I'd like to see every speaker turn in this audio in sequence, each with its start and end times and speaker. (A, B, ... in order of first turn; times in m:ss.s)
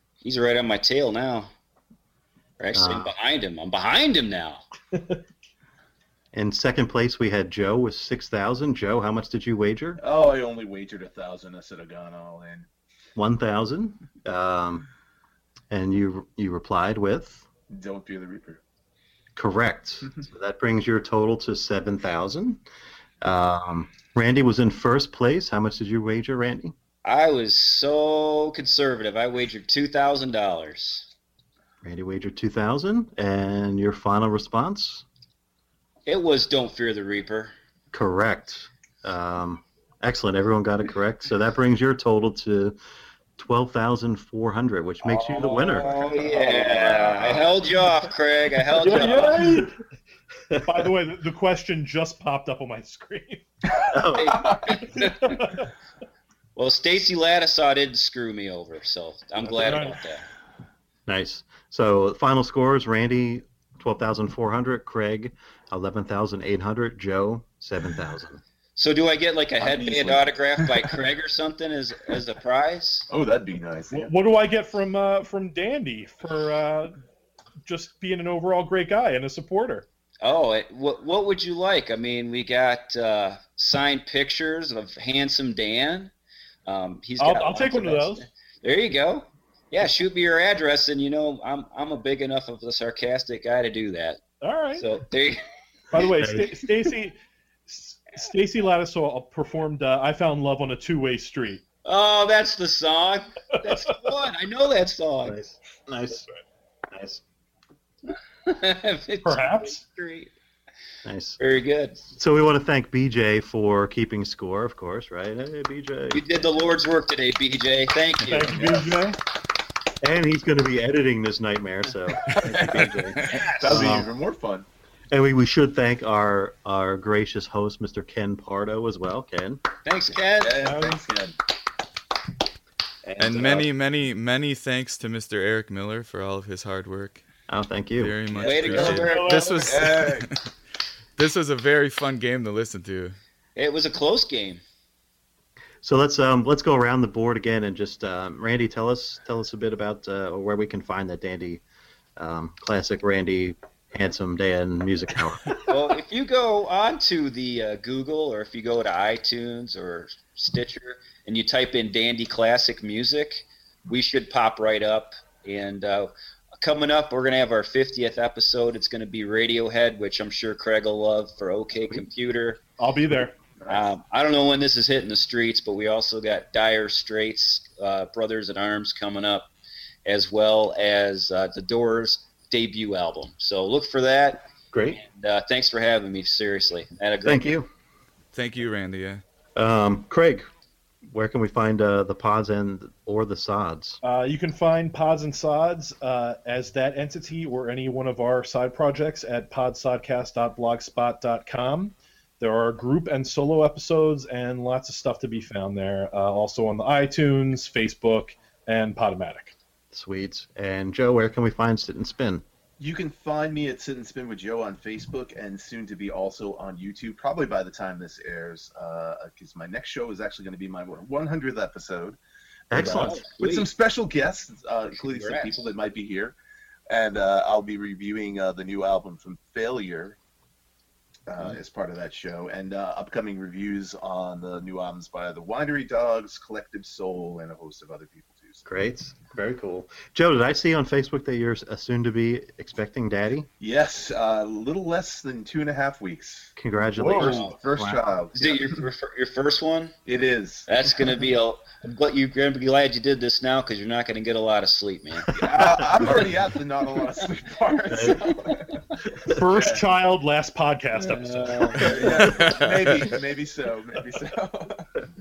0:00.2-0:01.5 A
0:02.6-0:04.6 A
0:02.7-0:03.1 B
0:06.3-0:10.0 B
0:10.0-0:12.7 C
0:13.1-0:14.9 B
0:15.7-0:17.5 B
0:17.7-0:18.6 C
0:19.3-0:22.6 B
0:23.2-0:26.7 B
0:27.0-0:31.1 A
0:31.8-0:35.0 B
0:36.0-0:37.5 A
0:37.9-0:42.8 B
0:43.4-0:47.7 B
0:45.0-0:49.5 A
0:48.7-0:49.8 D
0:50.5-0:50.8 B
0:50.6-0:53.4 D
0:53.7-0:54.8 C
0:53.9-0:54.4 B
0:54.1-0:55.4 A
0:55.0-0:55.7 D
0:56.6-1:00.2 A
0:59.4-1:00.0 D
1:01.1-1:08.4 B
1:08.8-1:13.1 A
1:09.6-1:10.9 C
1:13.1-1:14.1 C
1:13.9-1:17.0 D
1:17.6-1:19.8 D
1:20.2-1:26.1 A
1:26.6-1:34.2 A
1:27.2-1:28.2 D
1:34.4-1:34.9 D
1:34.7-1:35.4 A
1:35.9-1:41.6 D
1:36.2-1:36.5 B
1:41.8-1:45.4 A
1:45.2-1:46.2 B
1:46.9-1:47.2 B
1:48.4-1:50.3 A
1:49.2-1:49.8 D
1:51.0-1:51.4 B
1:51.4-1:52.1 A
1:52.1-1:56.6 B
1:56.1-1:58.9 A
1:58.3-1:59.2 D
1:58.4-1:58.7 B
2:00.0-2:04.1 B
2:03.3-2:03.9 A
2:03.6-2:04.7 C
2:05.1-2:09.6 B
2:09.8-2:10.7 A
2:10.4-2:11.3 C
2:10.6-2:11.0 D
2:13.0-2:13.6 B
2:13.2-2:17.2 E
2:17.5-2:18.2 B
2:18.0-2:20.4 E
2:18.3-2:20.3 C
2:18.4-2:19.3 A
2:19.0-2:19.7 D
2:21.2-2:23.2 E
2:23.6-2:24.6 A
2:25.8-2:31.6 B
2:32.2-2:35.6 B
2:35.6-2:52.6 A
2:52.8-2:53.4 D
2:53.6-2:53.9 C
2:53.7-2:59.5 A
3:00.0-3:07.5 A
3:04.7-3:05.0 B
3:07.2-3:07.7 B
3:08.3-3:09.2 E
3:09.5-3:10.5 B
3:11.1-3:14.0 B
3:14.0-3:29.5 D
3:29.9-3:32.4 B
3:32.8-3:42.2 C
3:42.7-3:43.2 B
3:42.7-3:46.4 C
3:42.7-3:43.7 A
3:45.0-3:45.6 A
3:46.9-3:50.2 C
3:51.3-3:58.6 C
3:58.6-4:03.5 B
4:03.6-4:06.5 C
4:06.6-4:08.0 B
4:07.0-4:07.4 D
4:07.1-4:08.8 C
4:07.1-4:07.5 A
4:08.3-4:10.0 A
4:10.0-4:10.7 C
4:10.7-4:15.3 A
4:15.3-4:18.8 C
4:17.9-4:18.2 B
4:19.3-4:22.0 D
4:19.5-4:19.8 C
4:21.0-4:22.1 A
4:21.7-4:25.0 C
4:22.3-4:23.1 E